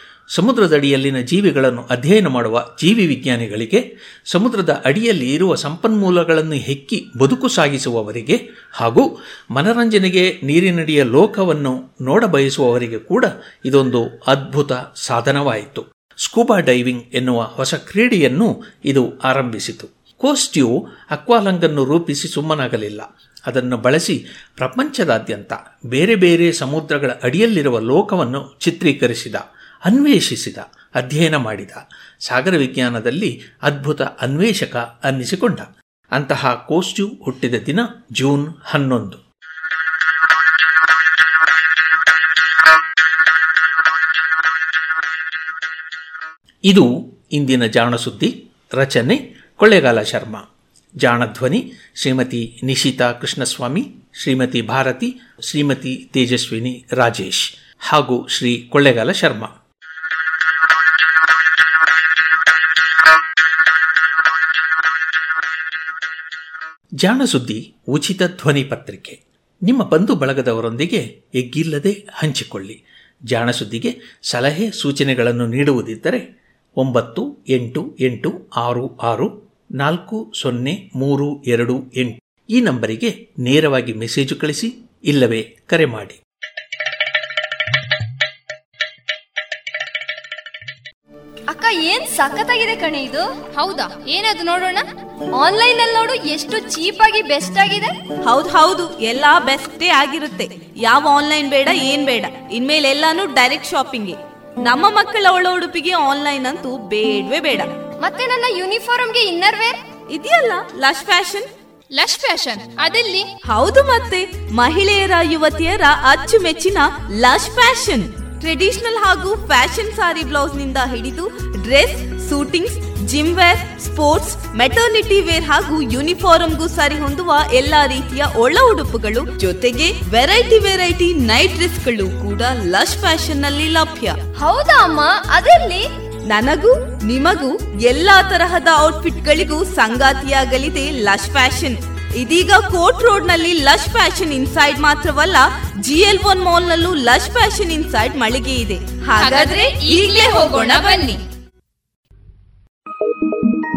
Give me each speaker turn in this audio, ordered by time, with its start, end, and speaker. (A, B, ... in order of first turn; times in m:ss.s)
0:00.3-0:39.2 A
0:46.6-0:50.4 A
0:51.0-0:59.5 A
1:07.0-1:12.8 A
1:13.3-1:16.2 A
1:16.8-1:26.2 A
1:31.5-1:34.8 B
1:35.4-1:37.9 B
1:38.2-1:47.7 C
1:48.0-1:49.8 B
1:50.1-1:51.5 C
1:51.9-1:53.3 B
1:53.5-2:14.2 C
2:14.4-2:15.8 B
2:16.3-2:31.0 C
2:29.2-2:31.2 B